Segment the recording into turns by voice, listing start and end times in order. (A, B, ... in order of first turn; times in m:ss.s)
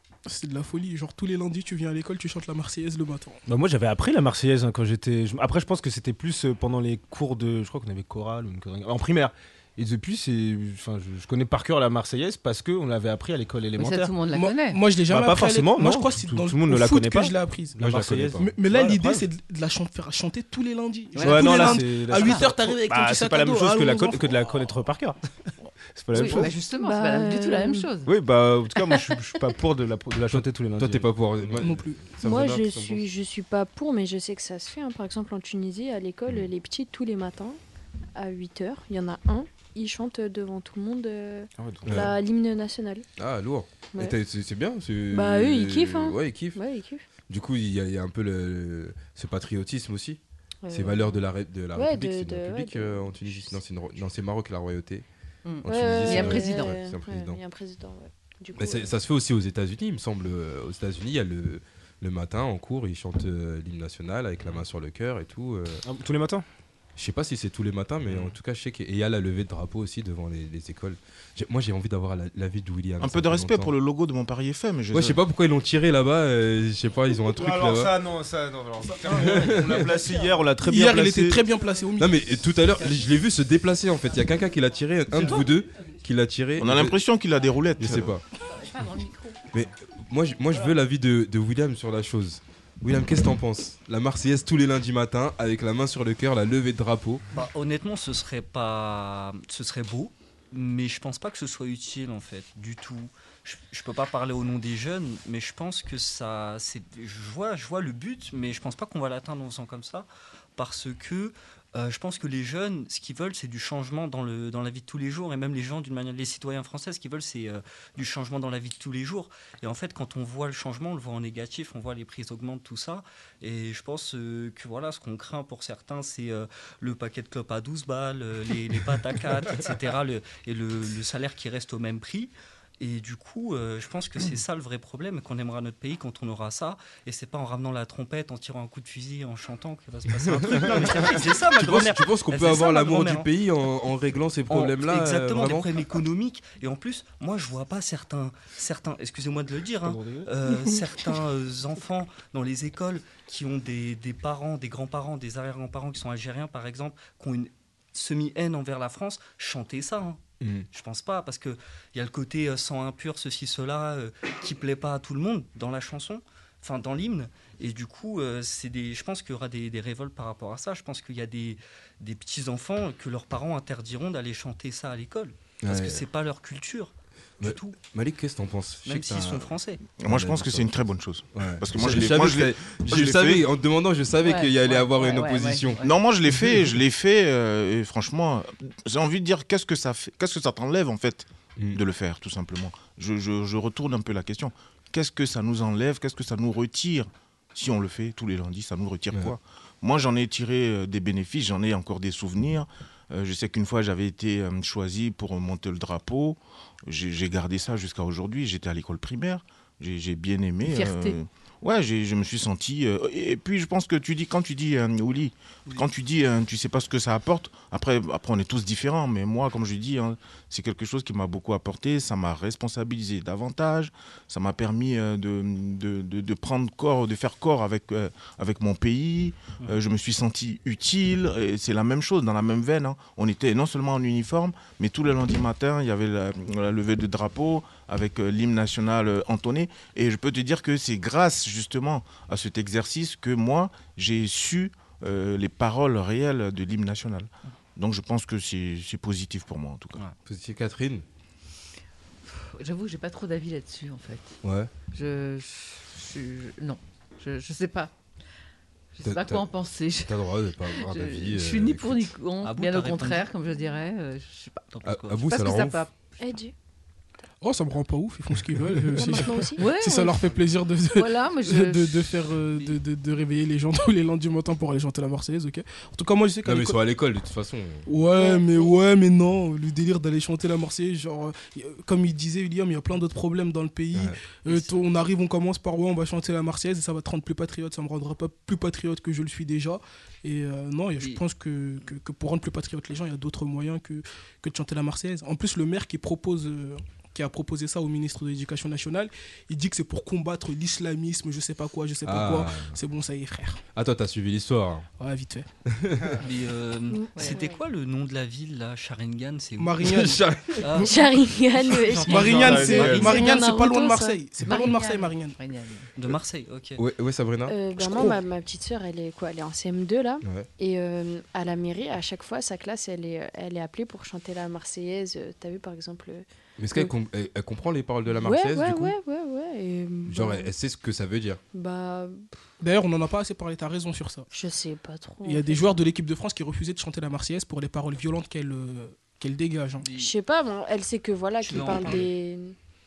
0:00.2-0:03.4 A
0:03.5-0:14.2 B
0:13.8-0:14.8 C
0:14.3-0:24.4 A
0:15.1-0:19.2 B
0:17.8-0:18.5 D
0:21.1-0:22.4 C
0:21.2-0:25.2 B
0:25.9-0:26.5 B
0:26.1-0:28.1 C
0:26.2-0:27.9 E
0:28.0-0:31.5 B
0:30.3-0:33.0 D
0:31.6-0:32.0 A
0:32.2-0:37.6 E
0:38.1-0:43.0 E
0:41.8-0:42.2 D
0:43.2-0:46.6 D
0:45.1-0:47.0 E
0:47.3-0:55.0 D
0:50.6-0:51.2 E
0:51.7-0:53.6 E
0:55.4-0:56.8 C
0:55.6-0:57.4 D
0:55.6-0:58.9 E
0:58.5-1:05.8 D
1:05.8-1:06.4 B
1:07.0-1:13.7 D
1:13.0-1:15.2 F
1:14.9-1:17.9 D
1:17.3-1:21.4 B
1:19.1-1:20.0 D
1:20.6-1:22.3 A
1:22.0-1:27.0 D
1:26.6-1:28.2 F
1:27.8-1:28.2 D
1:28.4-1:29.4 C
1:29.5-1:37.2 D
1:37.3-2:23.3 G
2:20.2-2:25.7 D
2:24.5-2:40.2 G
2:29.8-2:30.3 B
2:40.4-2:40.7 D
2:40.7-2:57.8 G
2:55.6-2:56.0 D
2:57.4-2:59.5 D
2:58.8-2:59.8 G
3:00.0-3:03.4 F
3:00.0-3:00.8 D
3:01.3-3:06.6 D
3:04.2-3:05.9 C
3:05.8-4:10.0 F
3:30.6-3:31.2 C
4:10.2-4:11.0 D
4:12.3-4:14.3 C
4:14.4-4:14.7 D
4:14.9-4:17.9 C
4:18.9-4:20.1 C
4:19.0-4:19.5 D
4:20.0-4:22.1 D
4:20.7-4:24.6 C
4:22.4-4:23.3 G
4:24.7-4:25.2 G
4:24.8-4:25.9 D
4:25.2-4:25.9 C
4:26.2-4:26.5 E
4:27.4-4:36.8 A
4:28.9-4:29.7 E
4:29.6-4:30.2 C
4:30.9-4:32.0 C
4:36.4-4:37.9 D
4:37.8-5:03.6 A
4:38.1-4:38.8 E
4:44.5-4:44.8 G
5:02.0-5:02.8 D
5:03.7-5:04.9 D
5:05.0-5:05.5 A
5:05.7-5:06.2 D
5:06.2-5:13.3 G
5:06.9-5:07.6 E
5:09.6-5:10.2 A
5:09.8-5:10.8 D
5:10.8-5:14.2 E
5:12.1-5:15.4 A
5:12.4-5:13.2 B
5:14.5-5:15.9 C
5:16.0-5:16.8 G
5:16.8-5:18.2 D
5:17.4-5:26.9 E
5:20.2-5:20.5 D
5:26.6-5:28.9 D
5:28.1-5:30.5 E
5:30.0-5:31.4 D
5:31.5-5:32.3 E
5:32.6-5:34.3 A
5:34.3-5:35.8 E
5:35.2-5:39.9 A
5:39.8-5:40.1 G
5:40.0-5:42.5 E
5:41.4-5:42.1 G